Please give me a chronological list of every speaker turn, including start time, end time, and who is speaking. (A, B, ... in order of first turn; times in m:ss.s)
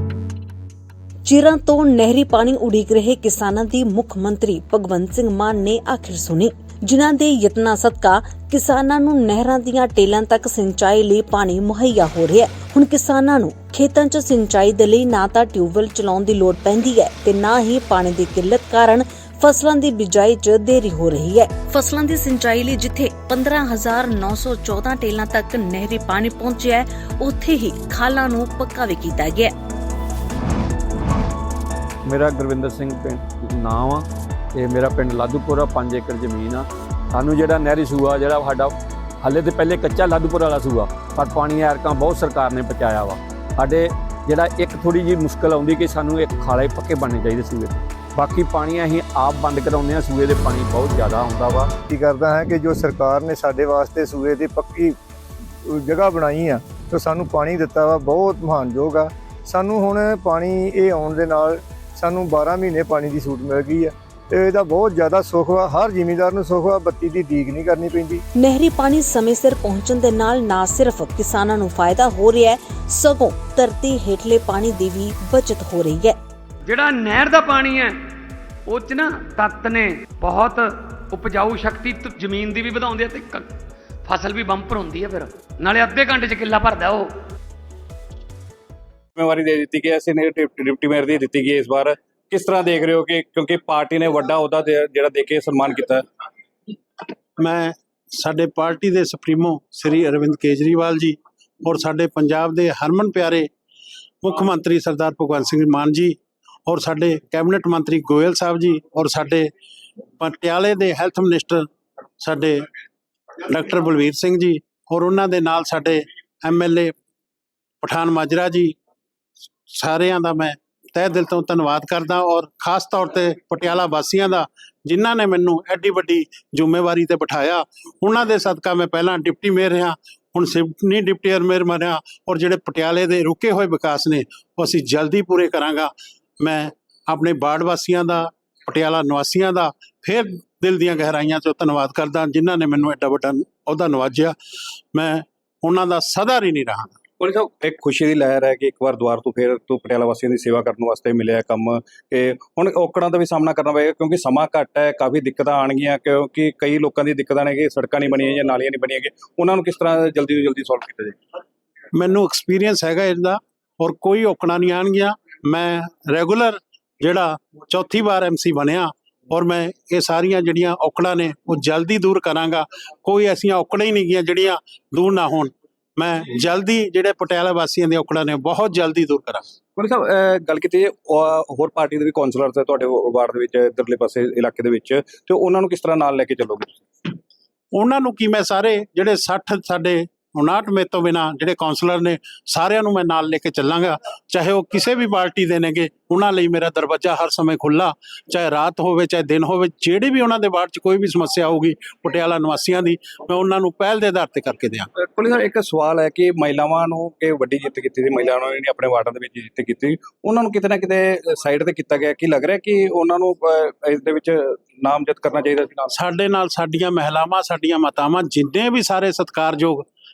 0:01.2-0:29.5 A
0:32.1-0:51.7 B
0:51.9-0:55.0 C
0:55.7-1:08.2 C
1:08.4-1:16.2 A
1:16.7-1:18.0 D
1:18.7-1:23.5 D
1:24.0-1:27.1 D
1:29.2-1:36.0 E
1:37.4-1:43.5 F
1:44.2-1:49.5 F
1:50.2-1:51.7 F
1:52.2-1:52.7 F
1:53.4-1:56.9 F
1:57.8-1:58.8 F
1:59.7-2:24.4 F
2:24.9-2:27.0 F
2:27.2-2:41.2 E
2:41.9-2:59.4 F
2:59.8-3:07.1 E
3:07.7-3:24.9 F
3:25.0-3:35.9 E
3:35.9-3:39.8 F